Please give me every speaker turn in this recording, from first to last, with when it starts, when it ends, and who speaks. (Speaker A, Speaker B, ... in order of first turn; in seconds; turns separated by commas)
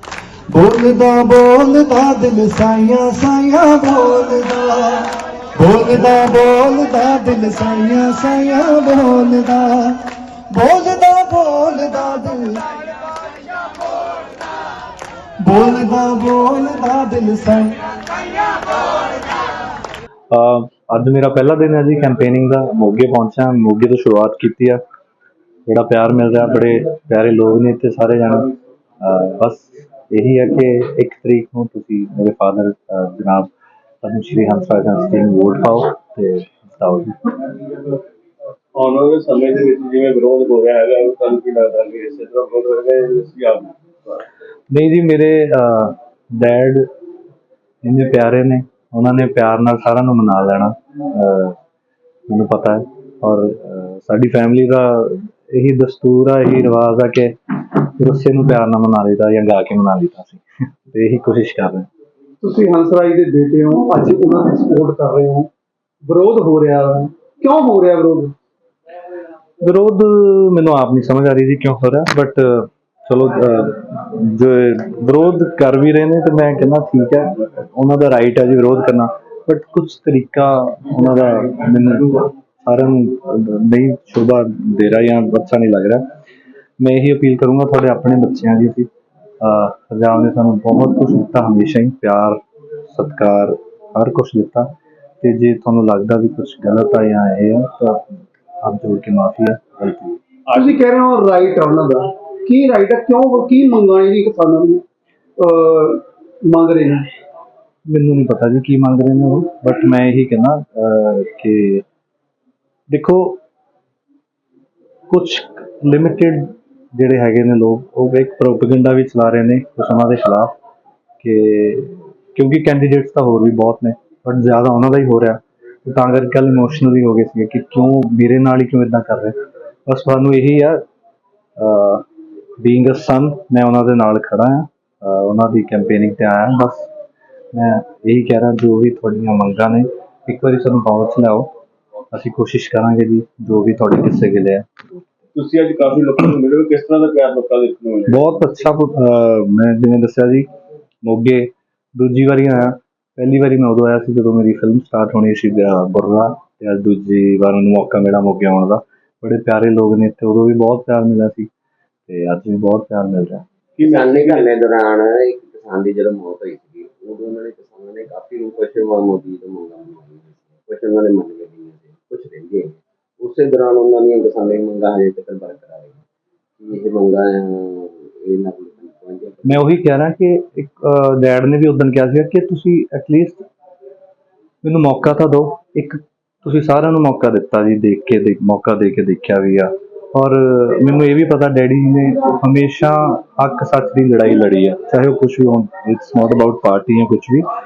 Speaker A: 0.5-10.0, Speaker A: 10.5-12.7, Speaker A: 15.4-17.8, Speaker B: 20.3-24.8, Speaker B: 25.7-33.5, Speaker B: 34.0-37.2, Speaker C: 38.8-44.1, Speaker B: 44.7-46.8, Speaker B: 47.8-51.6, Speaker B: 52.3-61.9, Speaker D: 62.4-65.5, Speaker D: 66.1-68.3, Speaker B: 69.6-86.0, Speaker B: 86.8-88.9, Speaker B: 89.4-94.7, Speaker B: 95.2-98.0, Speaker B: 98.6-100.2, Speaker C: 100.5-100.8, Speaker D: 100.5-104.8, Speaker D: 105.4-107.0, Speaker B: 107.9-111.8, Speaker B: 112.9-113.4, Speaker B: 115.1-120.5, Speaker B: 121.2-129.4, Speaker B: 129.9-130.8, Speaker B: 131.6-132.0, Speaker B: 132.6-136.9, Speaker B: 137.5-141.5, Speaker B: 142.1-144.7, Speaker C: 145.3-148.5, Speaker B: 148.1-150.5, Speaker B: 151.0-161.5, Speaker B: 162.1-163.4, Speaker C: 163.8-164.6, Speaker E: 163.8-176.0, Speaker E: 176.6-179.6, Speaker B: 179.4-183.4, Speaker B: 184.6-197.4